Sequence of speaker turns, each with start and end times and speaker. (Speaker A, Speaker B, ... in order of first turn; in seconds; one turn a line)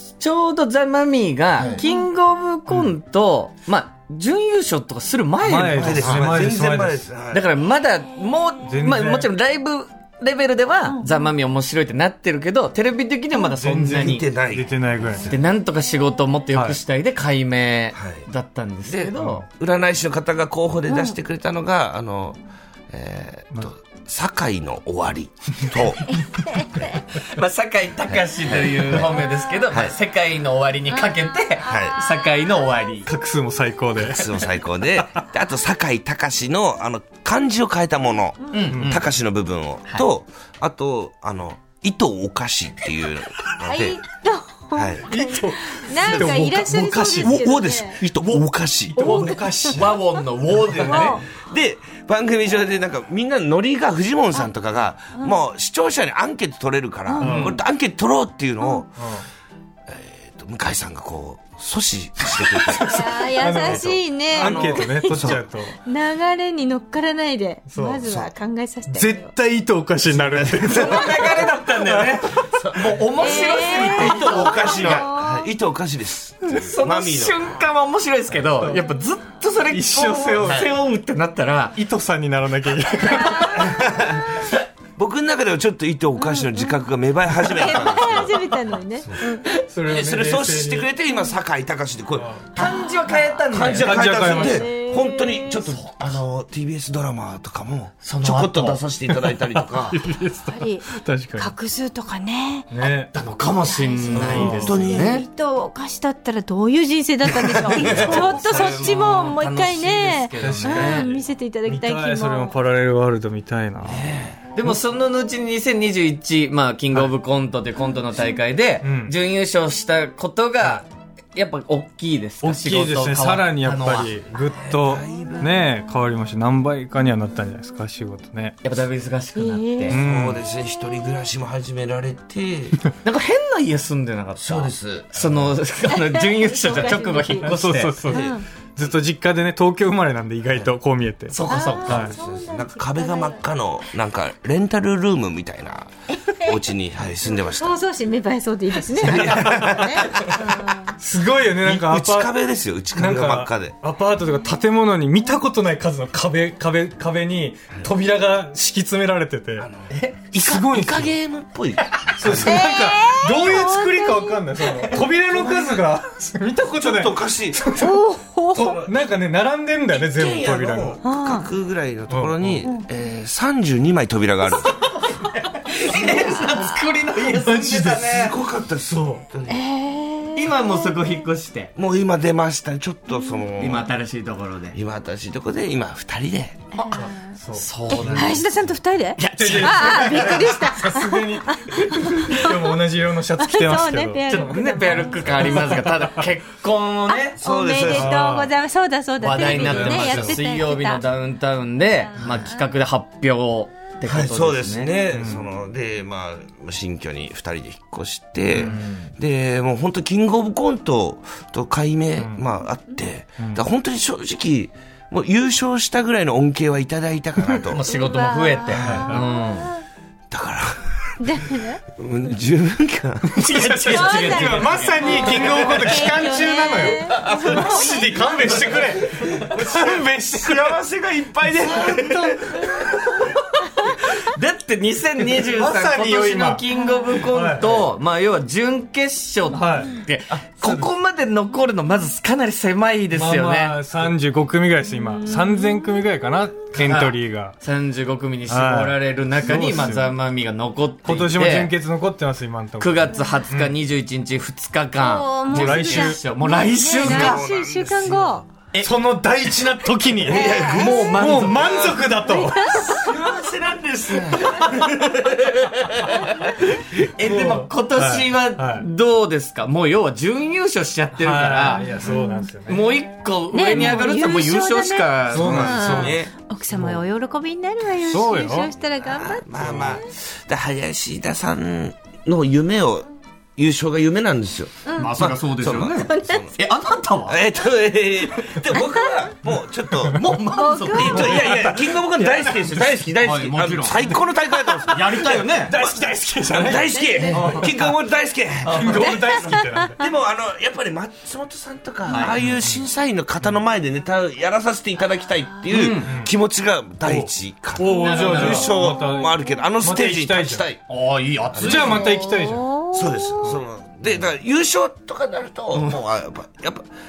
Speaker A: 0.2-6.3
Speaker B: 1.6-1.8
Speaker C: 1.8-2.0
Speaker D: 5.4-7.1
Speaker B: 5.7-7.5
Speaker A: 7.3-14.3
Speaker D: 8.6-9.3
Speaker B: 13.5-15.4
Speaker D: 13.6-15.3
Speaker A: 15.2-19.5
Speaker D: 16.5-16.8
Speaker B: 17.9-18.2
Speaker B: 18.9-26.2
Speaker C: 20.9-21.2
Speaker A: 27.2-33.1
Speaker B: 28.5-29.0
Speaker C: 31.1-32.2
Speaker B: 31.6-32.0
Speaker D: 33.1-34.4
Speaker B: 34.0-44.0
Speaker A: 38.5-39.1
Speaker D: 38.7-39.0
Speaker C: 43.6-48.0
Speaker B: 44.7-45.2
Speaker D: 45.1-47.5
Speaker B: 46.0-46.4
Speaker B: 47.2-49.3
Speaker D: 49.0-51.1
Speaker C: 49.0-49.8
Speaker A: 49.7-51.2
Speaker C: 50.8-51.3
Speaker B: 50.9-59.0
Speaker C: 57.1-57.5
Speaker D: 57.2-57.5
Speaker D: 59.0-59.2
Speaker B: 59.9-65.4
Speaker D: 62.6-65.8
Speaker C: 62.8-69.3
Speaker D: 67.7-68.1
Speaker B: 68.0-68.3
Speaker D: 68.9-72.6
Speaker B: 70.1-71.5
Speaker A: 70.7-75.1
Speaker B: 72.4-77.4
Speaker C: 73.2-75.5
Speaker A: 76.4-81.8
Speaker D: 78.5-78.9
Speaker D: 79.6-80.7
Speaker B: 80.4-80.7
Speaker D: 81.8-83.9
Speaker C: 83.0-83.6
Speaker B: 83.5-84.4
Speaker B: 85.0-89.3
Speaker C: 86.2-86.7
Speaker C: 87.4-89.5
Speaker D: 89.5-90.9
Speaker B: 89.9-92.3
Speaker D: 92.2-92.4
Speaker A: 92.5-94.3
Speaker C: 92.6-93.2
Speaker B: 93.5-100.0
Speaker D: 93.6-94.7
Speaker C: 94.2-95.6
Speaker A: 95.7-96.2
Speaker A: 98.0-98.8
Speaker D: 99.2-101.5
Speaker C: 100.5-100.8
Speaker C: 101.4-102.7
Speaker D: 102.7-103.1
Speaker A: 103.1-105.3
Speaker C: 103.7-112.5
Speaker D: 104.1-104.8
Speaker B: 104.2-105.1
Speaker D: 107.5-109.3
Speaker B: 107.6-108.8
Speaker A: 107.8-111.1
Speaker D: 110.4-114.1
Speaker B: 113.8-114.4
Speaker A: 114.5-124.2
Speaker D: 118.8-119.2
Speaker D: 122.4-128.6
Speaker B: 124.5-125.7
Speaker A: 128.6-130.0
Speaker C: 129.4-130.0
Speaker D: 129.9-130.4
Speaker B: 129.9-132.8
Speaker A: 133.0-137.9
Speaker B: 134.4-135.6
Speaker C: 135.9-137.5
Speaker D: 136.8-141.3
Speaker B: 138.1-138.4
Speaker C: 138.1-138.4
Speaker A: 141.3-142.1
Speaker C: 141.5-143.4
Speaker B: 141.9-147.8
Speaker C: 146.2-146.6
Speaker C: 147.5-150.9
Speaker B: 148.9-150.8
Speaker D: 149.1-150.3
Speaker D: 151.0-152.3
Speaker B: 151.6-153.8
Speaker D: 152.9-159.7
Speaker B: 159.6-162.7
Speaker A: 159.9-160.3
Speaker D: 160.3-161.2
Speaker D: 162.2-171.0
Speaker C: 162.4-164.5
Speaker B: 165.4-165.7
Speaker B: 166.8-167.6
Speaker C: 167.7-168.8
Speaker B: 168.6-169.0
Speaker B: 169.9-174.9
Speaker C: 171.1-171.5
Speaker D: 172.1-172.7
Speaker A: 174.8-178.3
Speaker B: 175.9-176.7
Speaker D: 177.1-178.3
Speaker B: 177.9-179.6
Speaker D: 178.9-179.2
Speaker C: 179.5-180.8
Speaker A: 180.3-181.7
Speaker B: 181.8-183.9
Speaker A: 183.6-184.8
Speaker B: 184.7-186.7
Speaker C: 186.8-187.2
Speaker D: 186.9-188.4
Speaker A: 187.5-188.4
Speaker C: 187.9-192.8
Speaker B: 187.9-188.4
Speaker A: 189.2-190.6
Speaker D: 189.4-196.2
Speaker C: 193.4-195.8
Speaker A: 194.3-197.4
Speaker B: 197.4-198.3
Speaker C: 197.4-201.1
Speaker D: 197.8-198.5
Speaker A: 199.2-204.9
Speaker D: 199.3-200.4
Speaker B: 204.1-217.9
Speaker D: 205.1-205.5
Speaker A: 208.6-209.1
Speaker A: 217.7-219.7
Speaker C: 217.9-219.1
Speaker B: 218.7-219.1
Speaker D: 218.8-219.3
Speaker B: 220.3-223.9
Speaker C: 221.2-221.8
Speaker D: 223.3-230.8
Speaker A: 223.4-225.9
Speaker C: 223.9-228.3
Speaker B: 227.2-227.6
Speaker B: 228.5-233.3
Speaker D: 231.5-233.3
Speaker A: 233.8-243.8
Speaker D: 235.2-237.9
Speaker C: 236.7-237.2
Speaker D: 239.5-240.0
Speaker D: 240.6-240.9
Speaker D: 243.1-247.6
Speaker C: 245.1-245.8
Speaker A: 246.7-251.7
Speaker D: 248.5-250.1
Speaker D: 251.1-253.8
Speaker A: 252.8-257.4
Speaker C: 255.0-258.4
Speaker D: 255.5-256.2
Speaker B: 257.0-258.5
Speaker D: 258.8-263.0
Speaker B: 260.2-262.0
Speaker C: 260.3-260.9
Speaker A: 260.6-262.0
Speaker C: 262.3-263.1
Speaker A: 262.8-265.1
Speaker B: 263.1-266.5
Speaker D: 266.9-268.9
Speaker A: 266.9-272.1
Speaker D: 271.2-273.0
Speaker C: 272.0-272.5
Speaker A: 272.7-276.3
Speaker C: 273.5-280.0
Speaker D: 273.7-274.1
Speaker D: 275.3-276.2
Speaker B: 275.4-276.3
Speaker D: 276.7-277.0
Speaker D: 278.0-278.7
Speaker B: 279.0-286.6
Speaker D: 279.6-280.0
Speaker C: 284.9-285.1
Speaker A: 284.9-287.4
Speaker C: 286.1-286.4
Speaker B: 287.3-290.3
Speaker D: 290.0-290.4
Speaker A: 290.1-291.5
Speaker C: 290.5-291.4
Speaker B: 290.9-310.8
Speaker D: 291.0-292.8
Speaker A: 293.1-294.2
Speaker A: 294.8-295.7
Speaker D: 295.1-297.9
Speaker C: 296.7-297.6
Speaker A: 297.3-297.9
Speaker A: 298.6-299.1
Speaker D: 298.7-300.0
Speaker C: 298.9-299.9
Speaker A: 302.1-302.4
Speaker D: 302.4-302.8
Speaker A: 305.7-306.1
Speaker D: 306.1-306.3
Speaker D: 307.0-310.6
Speaker A: 307.9-308.8
Speaker C: 308.8-309.3
Speaker A: 310.9-312.1
Speaker B: 311.5-312.1
Speaker D: 311.6-312.8
Speaker C: 312.1-313.5
Speaker B: 312.9-316.9
Speaker A: 315.7-316.0